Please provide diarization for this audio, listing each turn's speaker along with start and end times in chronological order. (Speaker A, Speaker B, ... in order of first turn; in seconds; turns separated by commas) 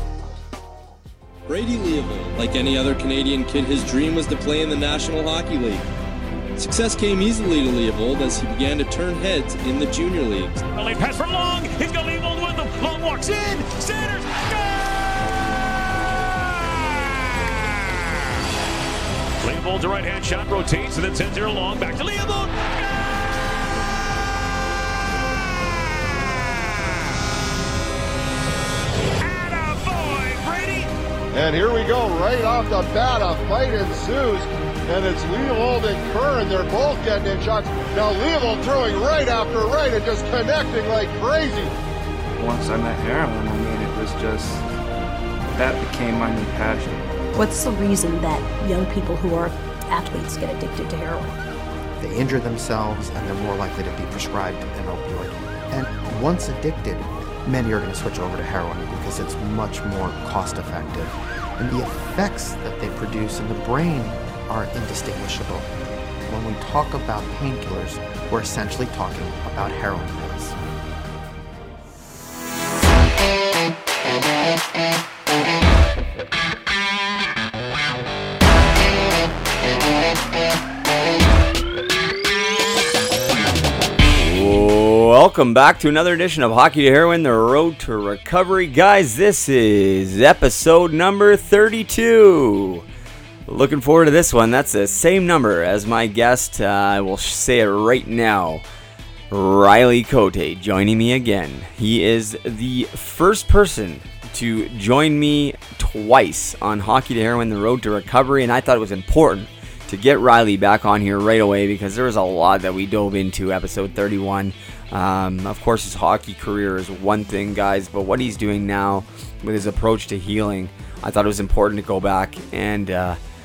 Speaker A: 1.5-5.8, Speaker A: 6.5-10.6, Speaker B: 10.7-15.0, Speaker B: 16.4-18.2, Speaker B: 19.4-23.0, Speaker B: 25.9-27.0, Speaker B: 29.2-30.9, Speaker C: 31.3-41.7, Speaker D: 42.3-44.6, Speaker D: 45.5-47.1, Speaker E: 47.3-51.3, Speaker F: 52.0-65.7, Speaker F: 66.3-70.6, Speaker G: 84.2-92.8, Speaker G: 93.5-98.6, Speaker G: 99.3-123.2